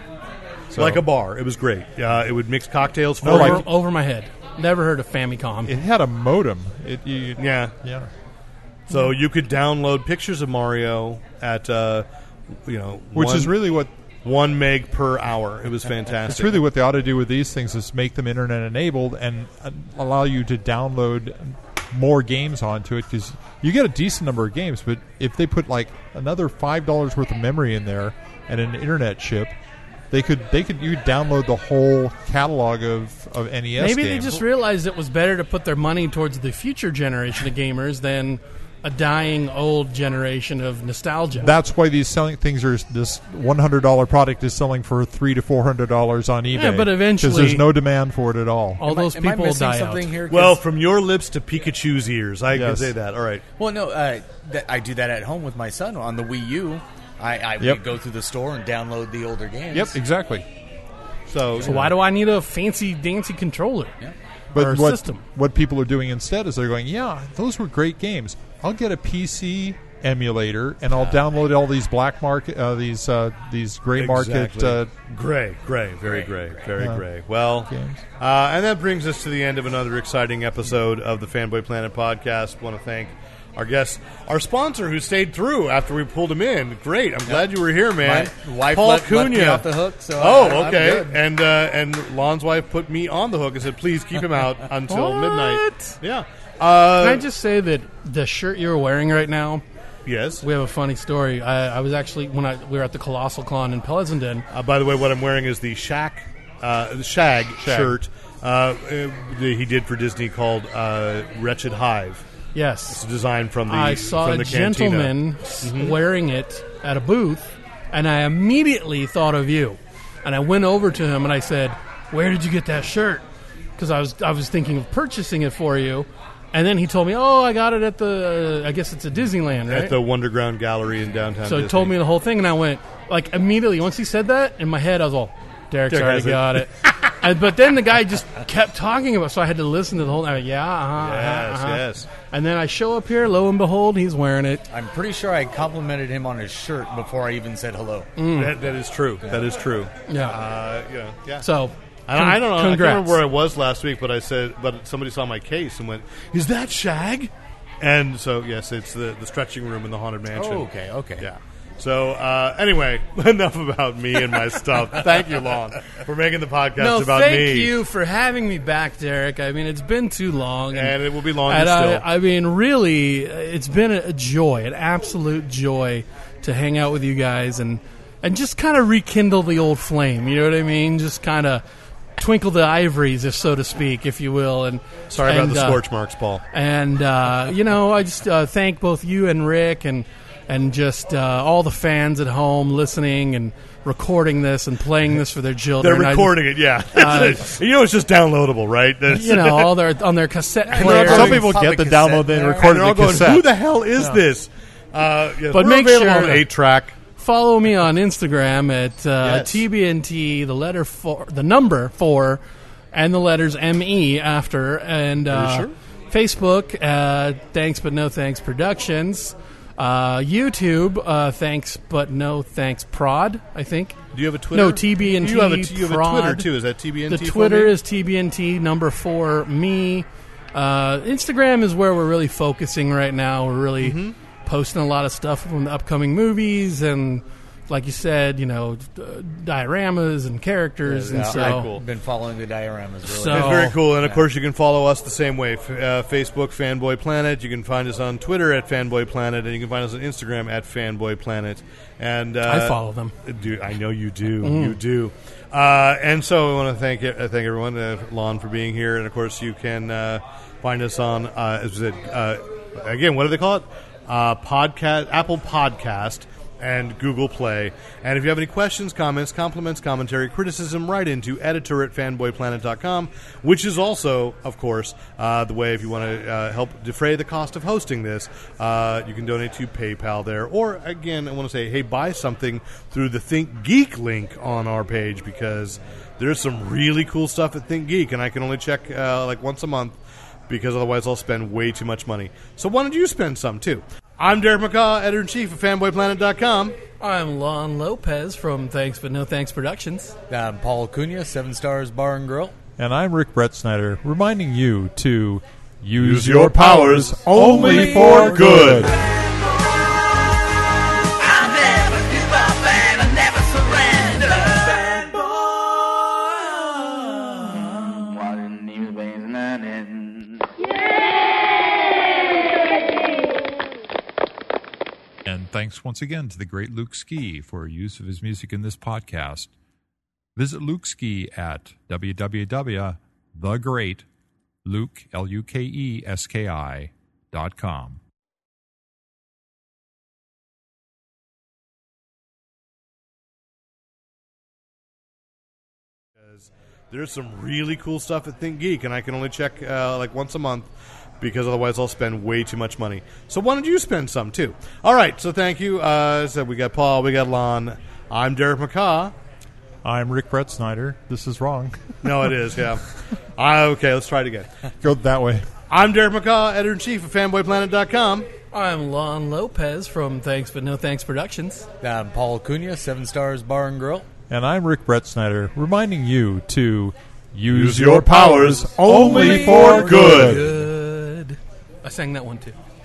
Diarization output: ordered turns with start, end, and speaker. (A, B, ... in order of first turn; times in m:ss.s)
0:00.7-0:01.0 A
0:00.8-0:03.6 B
0:03.2-0:05.8 C
0:03.2-0:03.6 A
0:05.7-0:08.1 A
0:07.4-0:07.7 B
0:08.9-0:12.1 B
0:12.7-0:13.6 B
0:13.1-0:13.9 A
0:14.2-0:16.6 B
0:16.3-0:29.6 A
0:30.1-0:34.4 A
0:33.8-0:41.5 C
0:41.4-0:48.8 A
0:46.5-0:47.6 C
0:48.8-0:50.1 C
0:48.8-0:50.6 D
0:50.3-0:53.4 B
0:52.5-0:52.9 A
0:53.6-1:00.0 D
0:59.7-1:00.5 A
1:01.3-1:01.9 B
1:01.6-1:03.9 C
1:04.5-1:14.9 A
1:04.6-1:05.2 C
1:10.9-1:11.2 D
1:14.0-1:37.2 B
1:16.1-1:16.3 D
1:16.8-1:17.0 A
1:17.7-1:18.0 A
1:28.0-1:31.2 D
1:34.9-1:36.0 C
1:37.0-1:39.6 C
1:40.1-1:40.4 B
1:40.4-1:44.4 C
1:44.5-1:52.2 B
1:47.6-1:48.0 A
1:52.6-1:53.0 C
1:52.9-1:56.0 B
1:53.7-2:03.2 C
2:03.8-2:10.0 C
2:09.7-2:12.0 B
2:11.5-2:24.6 C
2:15.9-2:16.9 B
2:21.0-2:22.1 B
2:24.7-2:28.1 D
2:28.2-2:28.6 C
2:28.4-2:31.4 B
2:30.1-2:30.4 C
2:31.4-2:33.2 C
2:32.1-2:40.7 B
2:40.3-2:41.3 D
2:41.2-2:47.7 B
2:46.8-3:01.6 C
2:50.7-2:52.0 B
3:02.2-3:05.8 C
3:05.1-3:06.4 B
3:06.5-3:16.4 C
3:15.8-3:19.8 B
3:16.9-3:17.5 C
3:19.1-3:21.4 C
3:20.6-3:22.8 D
3:20.8-3:24.2 A
3:22.5-3:27.0 B
3:25.5-3:26.5 C
3:27.2-3:32.4 C
3:29.2-3:29.6 B
3:32.9-3:44.0 C
3:35.3-3:35.7 B
3:44.1-3:47.8 B
3:44.5-3:46.5 C
3:47.1-4:01.7 C
3:53.8-3:54.2 B
4:00.9-4:04.2 D
4:01.1-4:01.8 B
4:03.1-4:03.8 C
4:03.3-4:50.0 B
4:12.5-4:13.1 C
4:14.4-4:14.8 C
4:50.5-4:56.8 B
4:57.0-5:00.2 C
5:00.3-5:02.6 D
5:02.8-5:09.0 A
5:06.0-5:08.9 B
5:07.6-5:08.4 D
5:09.0-5:10.1 E
5:11.0-5:19.8 E
5:25.2-5:29.5 A
5:30.4-5:34.1 A
5:34.6-5:38.0 A
5:46.3-5:50.7 B
5:51.2-5:59.1 B
5:59.8-6:02.3 A
6:02.0-6:02.8 B
6:03.4-6:04.5 B
6:04.8-6:05.5 A
6:05.7-6:08.3 B
6:08.5-6:11.7 C
6:11.8-6:14.1 D
6:14.3-6:20.5 A
6:17.5-6:20.5 B
6:19.0-6:22.6 C
6:19.6-6:20.1 D